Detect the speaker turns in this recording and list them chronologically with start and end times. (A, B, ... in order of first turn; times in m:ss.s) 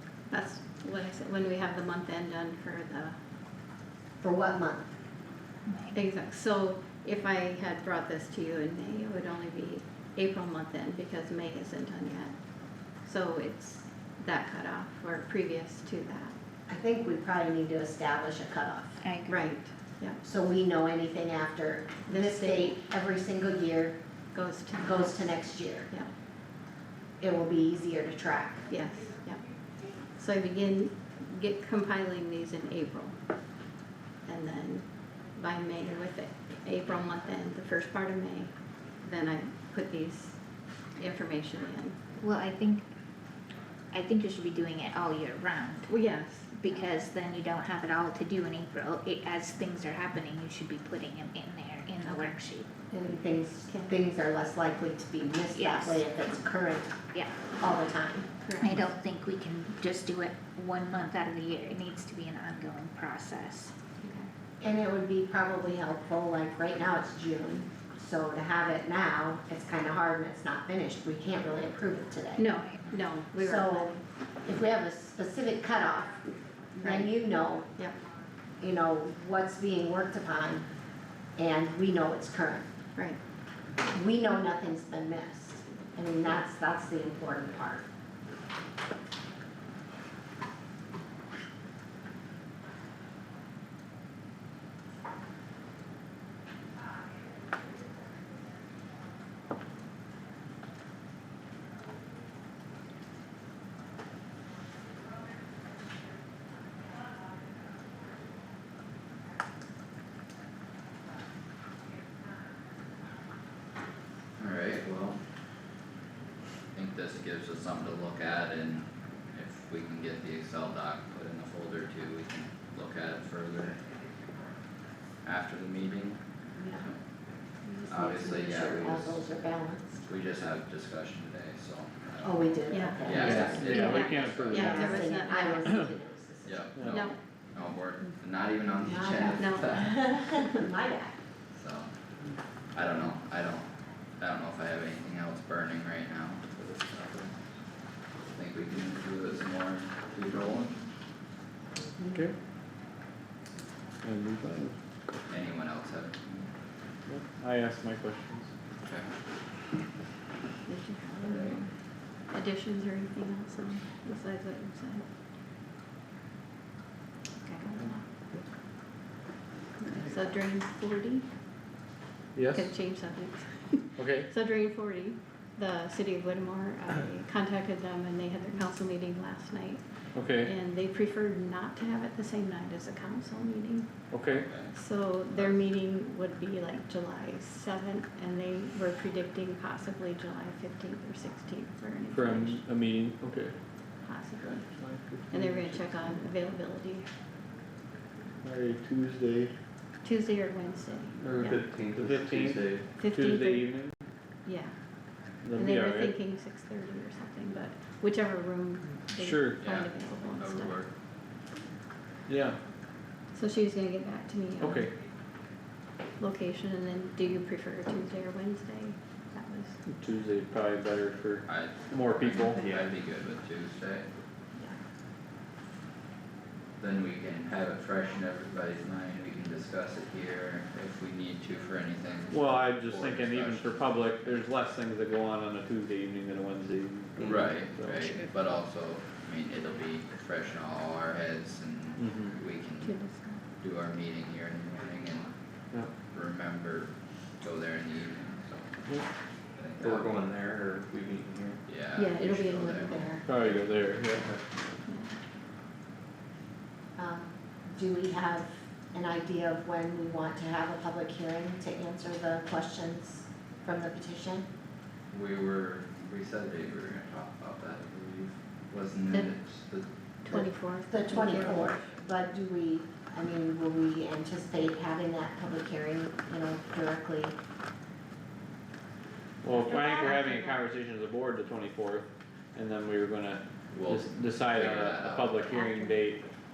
0:00.3-0:03.2 A
0:04.2-0:05.0 B
0:05.7-0:06.0 C
0:05.9-0:12.4 A
0:13.0-0:16.3 A
0:16.7-0:19.0 B
0:19.0-0:19.4 C
0:19.3-0:20.2 A
0:20.2-0:24.0 B
0:22.1-0:22.8 A
0:24.3-0:26.1 A
0:24.8-0:25.9 B
0:27.2-0:28.6 B
0:28.7-0:29.4 A
0:30.2-0:33.2 A
0:34.2-0:40.4 A
0:40.9-0:42.0 A
0:42.2-0:42.9 C
0:43.9-0:45.9 C
0:45.9-0:46.9 A
0:46.6-0:52.7 C
0:52.9-0:57.0 B
0:53.7-0:54.0 A
0:55.5-0:56.1 C
0:57.6-0:58.3 B
0:58.4-0:58.8 A
0:58.6-1:03.7 C
1:04.0-1:04.3 A
1:04.6-1:12.5 B
1:12.4-1:14.0 A
1:13.4-1:17.7 B
1:16.8-1:17.1 A
1:18.6-1:20.7 B
1:21.4-1:22.7 B
1:23.9-1:27.8 B
1:54.4-1:55.2 D
1:56.7-2:03.8 D
2:05.2-2:07.0 D
2:06.6-2:06.9 B
2:07.8-2:10.0 B
2:07.9-2:09.3 D
2:10.1-2:15.2 D
2:12.2-2:13.9 B
2:12.7-2:15.9 A
2:13.2-2:15.0 E
2:14.5-2:16.7 B
2:16.4-2:20.2 D
2:16.9-2:17.2 A
2:18.8-2:21.1 B
2:19.4-2:20.4 A
2:21.6-2:21.9 D
2:22.7-2:27.4 D
2:28.3-2:30.8 D
2:34.0-2:34.8 E
2:35.3-2:36.5 D
2:37.1-2:38.5 E
2:38.8-2:39.1 D
2:40.7-2:41.7 A
2:41.2-2:41.6 D
2:42.3-2:45.0 A
2:47.4-2:48.1 A
2:49.8-2:51.3 A
2:52.4-2:52.7 E
2:52.5-3:03.9 A
2:54.0-2:54.3 E
3:00.2-3:00.5 E
3:04.1-3:04.5 E
3:04.3-3:04.8 D
3:04.7-3:12.6 A
3:05.3-3:05.6 D
3:12.1-3:13.6 E
3:14.0-3:14.7 A
3:14.7-3:16.2 E
3:15.3-3:17.1 A
3:18.4-3:19.5 E
3:20.0-3:21.6 A
3:21.2-3:22.9 F
3:21.2-3:24.0 E
3:23.0-3:23.7 A
3:24.4-3:24.8 A
3:25.4-3:26.2 E
3:25.6-3:30.8 A
3:29.1-3:29.6 E
3:29.6-3:30.9 D
3:32.3-3:32.6 E
3:33.3-3:34.9 A
3:34.6-3:34.9 E
3:36.2-3:39.8 A
3:39.9-3:42.6 E
3:41.5-3:44.1 D
3:42.6-3:42.9 F
3:46.8-3:53.8 D
3:52.3-3:58.0 E
3:57.2-4:03.0 D
4:02.0-4:02.4 E
4:02.8-4:03.4 A
4:03.6-4:05.3 D
4:06.1-4:08.7 D
4:09.5-4:10.2 D
4:09.8-4:11.6 F
4:11.7-4:13.0 D
4:11.9-4:13.2 A
4:12.7-4:13.3 B
4:13.2-4:14.4 E
4:13.5-4:14.4 F
4:14.9-4:15.2 A
4:17.0-4:24.5 B
4:25.1-4:29.9 D
4:30.2-4:31.8 A
4:30.3-4:37.4 B
4:39.4-4:46.3 E
4:39.5-4:40.6 A
4:43.7-4:45.5 D
4:45.5-4:45.9 C